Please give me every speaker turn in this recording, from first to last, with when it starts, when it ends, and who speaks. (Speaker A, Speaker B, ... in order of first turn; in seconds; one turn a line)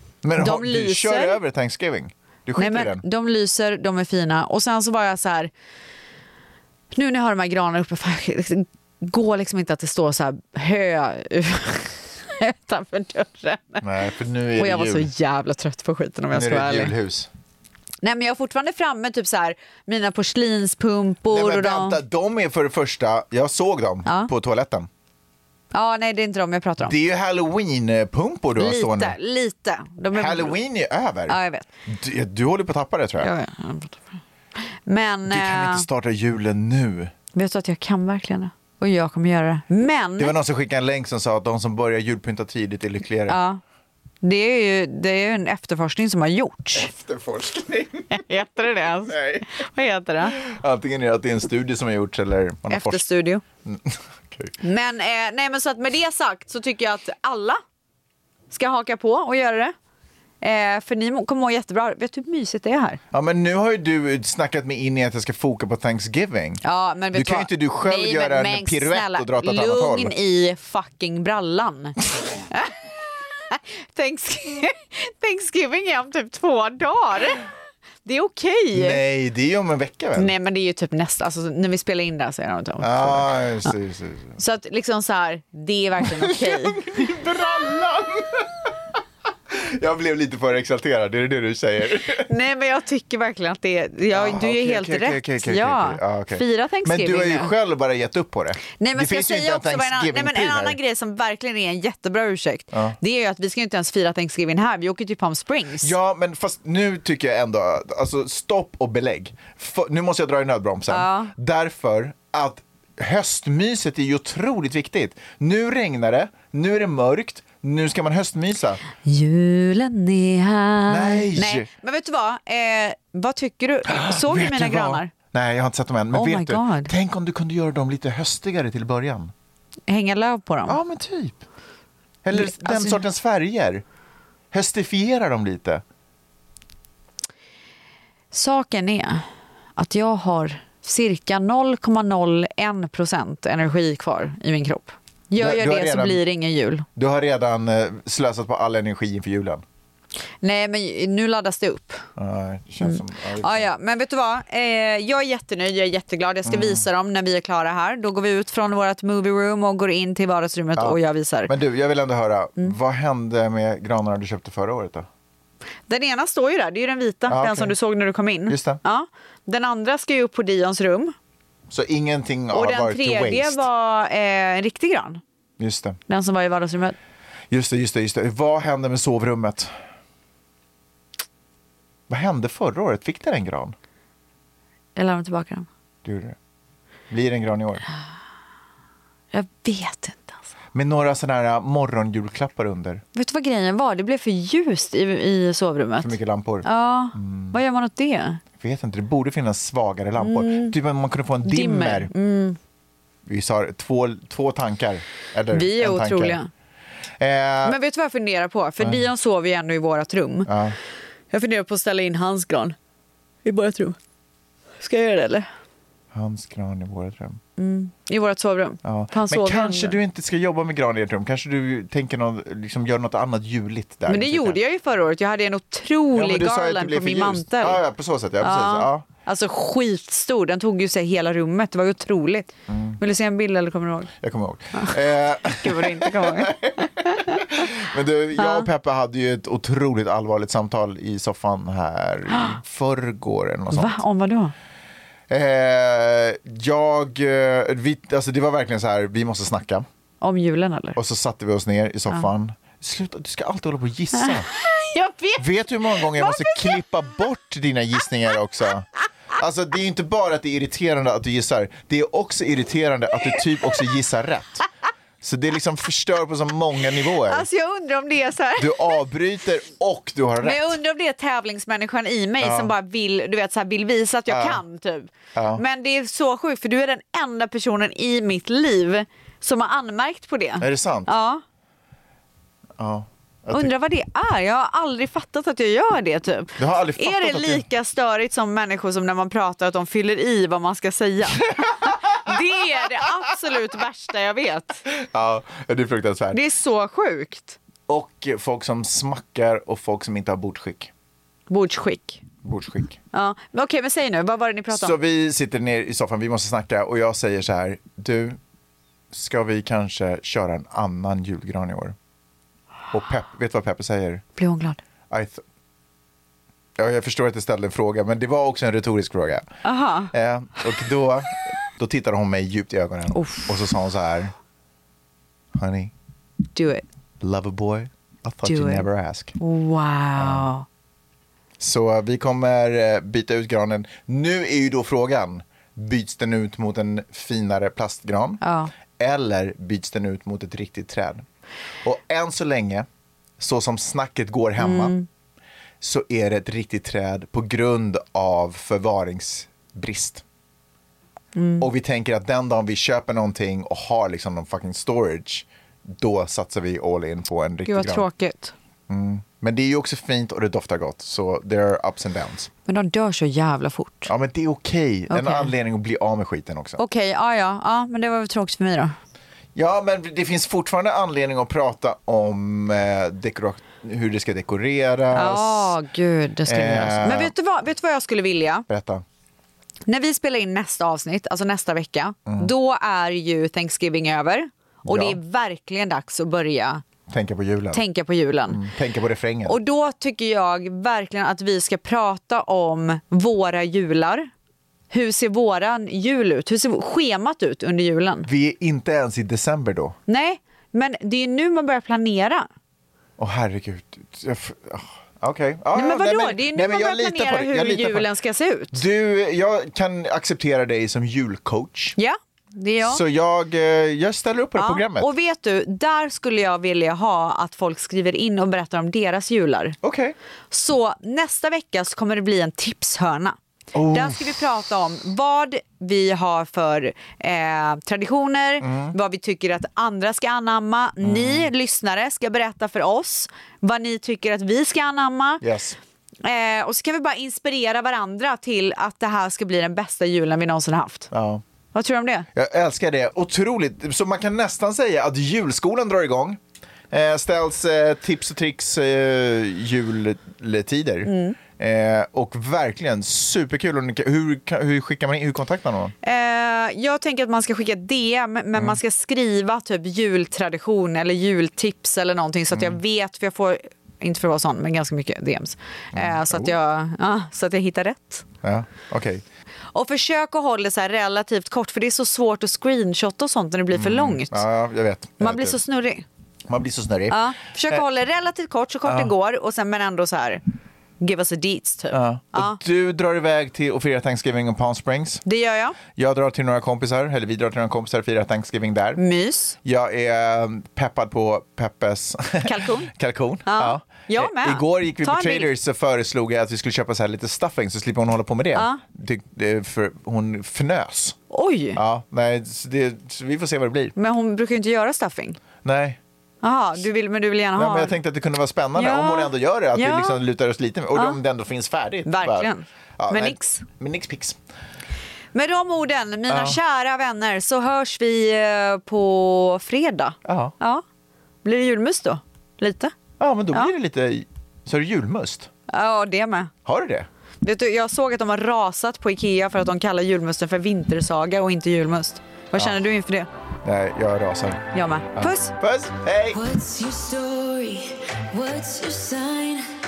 Speaker A: 0.2-3.0
Speaker B: 0.4-1.4
Speaker B: 2.6-5.5
Speaker B: 6.9-13.9
Speaker A: 13.8-15.1
Speaker B: 14.6-16.9
Speaker A: 16.3-17.3
Speaker B: 18.0-22.0
Speaker A: 21.3-24.9
Speaker B: 24.1-24.3
Speaker B: 25.7-26.9
Speaker A: 26.8-29.2
Speaker B: 28.6-30.6
Speaker A: 30.1-33.3
Speaker B: 31.3-31.7
Speaker B: 33.2-35.9
Speaker A: 35.3-37.1
Speaker B: 37.3-40.4
Speaker A: 40.2-43.4
Speaker B: 43.3-43.6
Speaker B: 44.2-46.9
Speaker A: 46.8-48.2
Speaker B: 48.1-50.4
Speaker A: 49.1-49.5
Speaker A: 50.3-53.0
Speaker B: 52.7-53.4
Speaker A: 53.6-54.5
Speaker B: 54.6-57.6
Speaker B: 58.5-59.7
Speaker B: 60.4-63.0
Speaker A: 63.1-66.6
Speaker B: 66.6-72.0
Speaker A: 67.1-70.1
Speaker B: 72.5-77.4
Speaker B: 78.0-79.0
Speaker A: 78.7-80.3
Speaker B: 80.2-83.7
Speaker A: 82.8-84.4
Speaker B: 84.4-86.8
Speaker A: 86.1-88.5
Speaker A: 89.5-92.3
Speaker B: 92.2-97.5
Speaker A: 94.1-100.8
Speaker B: 98.8-105.9
Speaker A: 105.8-118.8
Speaker B: 110.9-111.3
Speaker B: 119.0-125.1
Speaker A: 120.9-121.7
Speaker A: 123.9-129.3
Speaker B: 126.1-126.9
Speaker B: 129.9-130.8
Speaker A: 130.7-131.4
Speaker A: 132.2-133.8
Speaker B: 132.3-133.0
Speaker A: 134.5-135.8
Speaker B: 138.3-146.9
Speaker A: 145.4-146.2
Speaker A: 147.0-149.6
Speaker B: 150.4-152.1
Speaker A: 152.2-153.7
Speaker B: 152.8-161.5
Speaker A: 156.4-156.8
Speaker A: 160.8-165.1
Speaker B: 165.9-171.2
Speaker A: 167.3-167.8
Speaker A: 168.5-168.8
Speaker A: 171.7-173.7
Speaker B: 172.5-175.2
Speaker A: 175.6-176.0
Speaker B: 176.1-177.0
Speaker A: 177.5-179.7
Speaker A: 182.1-183.8
Speaker B: 185.0-185.7
Speaker A: 186.0-186.4
Speaker A: 187.1-187.8
Speaker B: 189.3-190.4
Speaker A: 190.7-193.0
Speaker B: 193.1-198.4
Speaker A: 196.0-197.6
Speaker A: 198.6-202.1
Speaker B: 200.2-200.8
Speaker B: 201.4-202.6
Speaker A: 203.3-206.4
Speaker B: 205.5-206.5
Speaker A: 207.2-207.8
Speaker B: 207.6-210.5
Speaker A: 208.8-209.1
Speaker A: 210.5-210.8
Speaker B: 211.3-212.8
Speaker B: 213.4-214.0
Speaker B: 214.8-215.5
Speaker A: 216.1-217.4
Speaker B: 217.6-220.0
Speaker A: 218.8-224.6
Speaker B: 224.1-227.8
Speaker A: 226.2-229.1
Speaker B: 228.4-234.1
Speaker A: 232.7-233.0
Speaker A: 234.2-244.0
Speaker B: 234.8-237.4
Speaker B: 238.4-238.7
Speaker B: 242.3-242.6
Speaker B: 243.7-244.5
Speaker A: 245.3-249.9
Speaker B: 250.2-251.0
Speaker A: 251.0-254.5
Speaker B: 254.2-256.8
Speaker A: 255.4-264.7
Speaker B: 263.2-263.8
Speaker A: 265.2-267.4
Speaker B: 266.9-269.0
Speaker A: 268.6-270.8
Speaker B: 270.4-281.4
Speaker A: 272.4-272.7
Speaker A: 274.3-274.6
Speaker A: 275.4-275.6
Speaker A: 280.6-281.1
Speaker A: 282.8-283.7
Speaker B: 283.5-294.8
Speaker A: 286.6-287.6
Speaker A: 294.9-296.4
Speaker B: 296.3-297.6
Speaker A: 297.9-300.9
Speaker B: 301.5-302.2
Speaker A: 302.4-303.0
Speaker B: 303.1-305.0
Speaker A: 304.7-308.4
Speaker A: 309.1-312.0
Speaker A: 312.9-314.2
Speaker B: 314.4-314.8
Speaker A: 315.1-315.4
Speaker A: 316.8-319.5
Speaker B: 319.6-320.1
Speaker A: 320.1-324.3
Speaker B: 323.1-323.5
Speaker A: 325.6-325.9
Speaker B: 326.5-326.9
Speaker A: 327.2-329.4
Speaker B: 328.4-328.9
Speaker B: 329.4-330.7
Speaker A: 330.2-330.5
Speaker A: 331.6-338.4
Speaker B: 338.4-338.7
Speaker A: 339.0-341.2
Speaker A: 341.8-342.9
Speaker A: 343.4-345.0
Speaker B: 344.6-345.1
Speaker A: 345.8-350.2
Speaker B: 351.4-351.7
Speaker A: 351.6-358.1
Speaker B: 357.7-358.5
Speaker A: 358.9-362.5
Speaker B: 362.7-364.1
Speaker A: 364.1-366.8
Speaker B: 365.1-365.5
Speaker B: 366.8-369.0
Speaker A: 369.6-375.8
Speaker B: 375.1-378.7
Speaker A: 376.5-377.3
Speaker A: 378.7-379.0
Speaker B: 379.9-386.8
Speaker A: 382.3-382.5
Speaker A: 384.9-385.2
Speaker A: 387.1-387.8
Speaker B: 387.7-388.6
Speaker A: 388.5-389.6
Speaker B: 389.5-394.3
Speaker B: 394.9-398.3
Speaker A: 398.2-400.0
Speaker B: 400.1-402.5
Speaker A: 403.2-408.1
Speaker B: 405.7-408.8
Speaker A: 408.7-412.0
Speaker B: 412.0-413.0
Speaker A: 412.8-415.1
Speaker B: 414.6-419.8
Speaker A: 419.8-420.1
Speaker B: 420.5-423.4
Speaker A: 423.8-424.3
Speaker B: 423.9-435.4
Speaker A: 428.6-428.9
Speaker A: 431.0-431.5
Speaker A: 435.4-435.8
Speaker B: 436.2-441.1
Speaker A: 441.1-441.4
Speaker B: 441.7-442.3
Speaker A: 442.4-446.4
Speaker A: 446.9-455.9
Speaker B: 451.1-451.4
Speaker B: 456.0-468.3
Speaker A: 462.5-462.8
Speaker A: 465.9-466.6
Speaker A: 468.4-469.2
Speaker B: 469.7-474.4
Speaker A: 473.7-475.6
Speaker B: 475.2-476.1
Speaker A: 476.5-477.8
Speaker B: 477.1-480.4
Speaker A: 478.9-479.1
Speaker B: 481.0-482.6
Speaker A: 481.9-485.2
Speaker B: 485.2-485.8
Speaker A: 485.9-489.0
Speaker B: 489.0-489.6
Speaker A: 489.6-501.2
Speaker B: 492.4-492.9
Speaker B: 493.4-495.5
Speaker B: 498.6-498.8
Speaker B: 501.3-501.8
Speaker A: 501.8-503.9
Speaker B: 504.0-505.4
Speaker A: 505.6-506.0
Speaker B: 506.4-508.0
Speaker A: 507.6-514.4
Speaker B: 508.8-510.2
Speaker B: 510.9-511.2
Speaker B: 512.1-513.6
Speaker B: 515.3-520.8
Speaker A: 516.3-516.6
Speaker A: 520.2-520.5
Speaker B: 521.4-523.0
Speaker A: 523.2-525.5
Speaker B: 525.7-526.5
Speaker A: 526.6-527.1
Speaker B: 527.4-533.3
Speaker A: 533.6-536.4
Speaker B: 534.7-535.6
Speaker C: 536.3-539.7